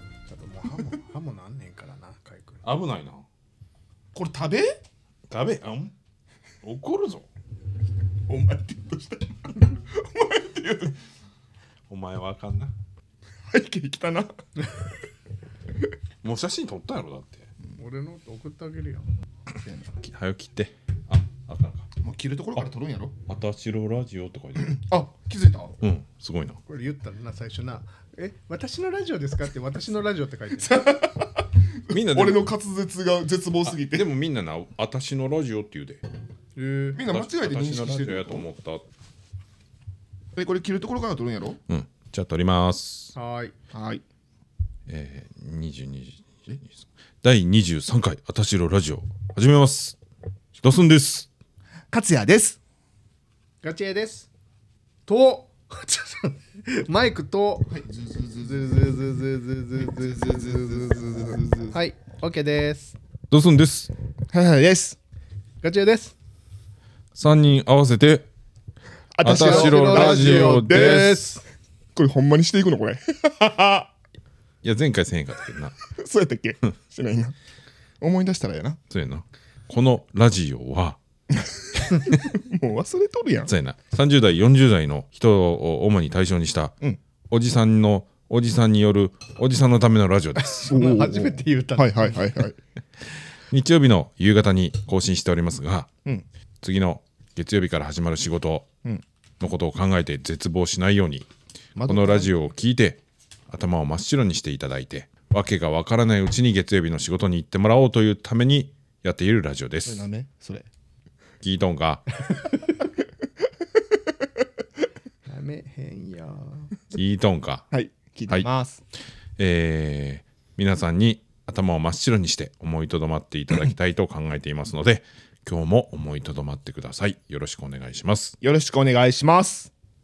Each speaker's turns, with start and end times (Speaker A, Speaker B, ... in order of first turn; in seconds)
Speaker A: 0.3-2.6, 17.8-19.1, 26.7-31.0, 36.6-37.0, 43.1-43.5, 53.6-54.3, 55.1-57.8, 58.3-63.0, 65.6-66.2, 69.2-71.4, 90.4-92.3, 115.3-116.7
Speaker B: 2.6-3.2, 5.3-5.9, 6.6-7.3, 11.9-12.7, 16.2-17.5, 20.0-21.9, 23.3-24.9, 25.8-26.6, 31.9-32.5, 33.7-36.0, 37.1-38.8, 41.7-43.1, 44.9-50.0, 50.6-51.3, 63.3-63.9, 67.2-68.3, 69.2-71.2, 74.6-75.8, 78.9-81.0, 83.5-86.8, 87.3-90.6, 93.5-95.9, 96.6-98.7, 99.4-101.3, 101.9-110.1, 111.4-112.2, 116.9-117.7, 119.4-128.4
Speaker C: 4.1-4.8, 8.3-11.0, 13.5-14.3, 19.5-19.9, 22.0-23.2, 24.7-25.8, 30.6-34.1, 36.9-38.5, 40.4-41.6, 43.7-44.0, 51.9-52.6, 57.7-58.7, 59.8-61.8, 64.3-65.0, 69.2-71.2, 72.0-73.9, 76.0-77.4, 78.0-78.8, 81.3-83.5, 90.7-92.6, 101.8-102.3, 109.8-110.7, 117.7-118.8, 128.4-129.7